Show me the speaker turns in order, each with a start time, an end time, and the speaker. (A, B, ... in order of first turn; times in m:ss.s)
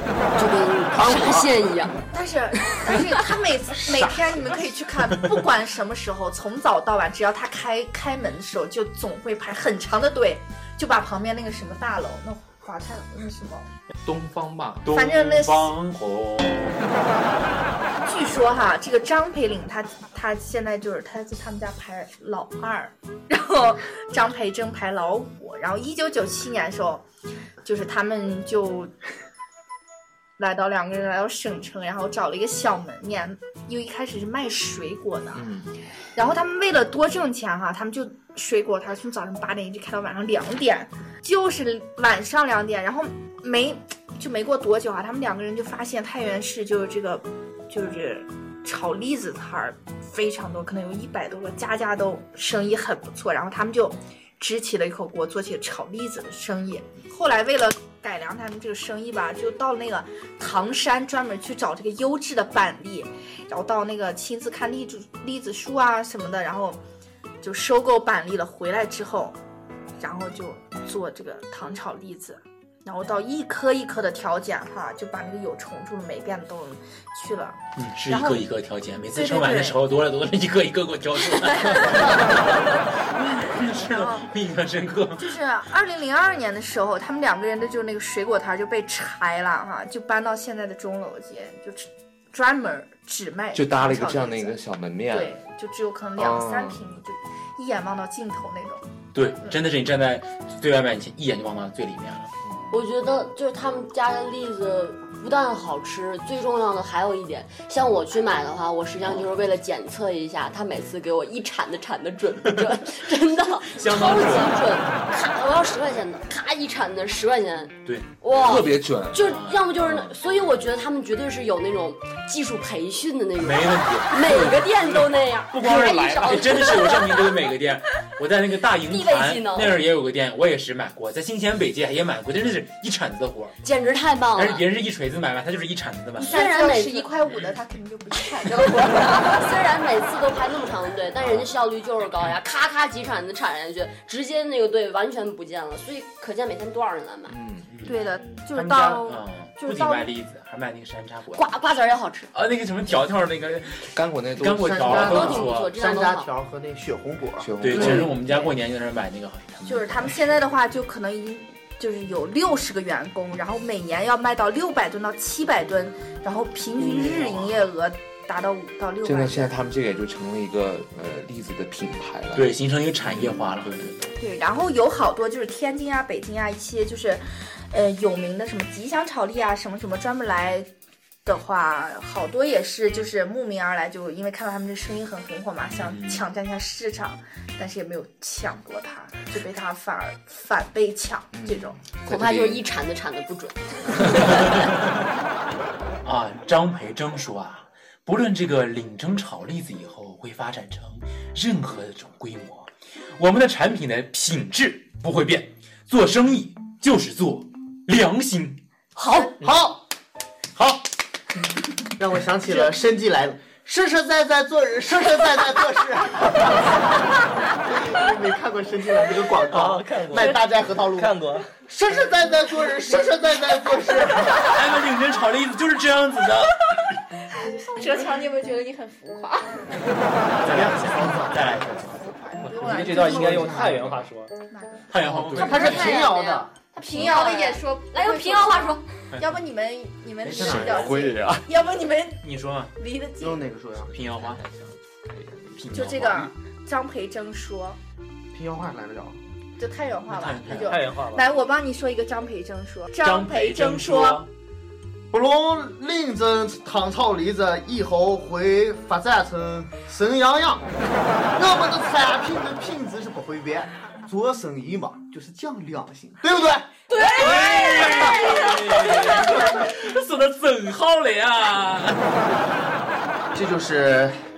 0:00.3-0:02.0 A
0:00.9-0:01.6 B
0:02.1-0:13.6 C
0:14.0-0:14.9 D
0:14.8-0:16.8 E
0:14.9-0:15.7 C
0:18.0-0:27.0 C
0:27.6-0:28.9 C
0:30.4-0:35.5 C
0:35.3-0:35.7 D
0:36.2-1:06.8 C
1:07.4-1:09.4 C
1:10.0-1:17.6 C
1:17.8-1:25.3 E
1:18.1-1:18.4 C
1:19.1-1:19.8 C
1:23.8-1:24.2 C
1:25.2-1:34.6 C
1:33.5-1:35.3 D
1:35.1-1:38.8 C
1:36.2-1:36.8 D
1:39.1-1:42.3 E
1:42.4-1:42.8 D
1:42.7-2:07.4 A
1:53.6-1:54.7 E
1:57.8-1:58.1 E
1:58.3-1:59.3 D
1:59.1-2:00.1 E
2:03.4-2:13.5 E
2:08.8-2:09.8 A
2:13.6-2:14.6 A
2:14.3-2:16.4 E
2:16.2-2:17.1 A
2:16.2-2:19.5 C
2:18.4-2:27.4 A
2:27.3-2:27.7 D
2:27.7-2:28.0 E
2:27.8-2:30.1 C
2:28.5-2:31.5 E
2:31.3-2:32.3 A
2:32.3-2:35.7 E
2:33.9-2:35.4 D
2:34.6-2:38.1 B
2:35.0-2:36.3 A
2:37.4-2:38.1 D
2:37.6-2:39.9 E
2:39.6-2:49.5 C
2:49.0-2:53.9 D
2:52.4-2:54.0 E
2:54.2-3:00.7 C
3:01.2-3:11.8 C
3:05.8-3:06.2 D
3:11.3-3:12.7 D
3:12.1-3:14.7 A
3:14.1-3:15.0 E
3:16.0-3:28.6 E
3:29.0-3:29.4 A
3:29.4-3:29.8 B
3:30.5-3:30.8 E
3:32.0-3:37.0 B
3:37.5-3:44.5 B
3:39.5-3:41.5 F
3:44.4-3:46.8 E
3:47.3-3:49.8 C
3:50.4-3:52.1 E
3:50.4-3:51.7 B
3:52.0-3:53.6 C
3:52.4-3:54.3 F
3:52.6-3:53.9 B
3:52.8-3:53.7 E
3:54.5-3:54.9 C
3:54.9-3:56.1 E
3:55.1-3:56.5 B
3:55.3-3:59.0 A
3:56.8-4:02.2 C
4:00.2-4:01.0 E
4:00.3-4:01.5 D
4:02.2-4:02.7 E
4:02.8-4:03.4 C
4:03.2-4:04.0 B
4:03.9-4:06.3 E
4:05.7-4:07.8 C
4:08.3-4:09.2 B
4:09.6-4:14.2 C
4:10.1-4:10.9 E
4:10.6-4:11.3 F
4:13.0-4:14.3 E
4:15.1-4:20.6 B
4:21.3-4:29.2 B
4:27.0-4:29.4 A
4:27.0-4:32.1 E
4:33.3-4:34.2 B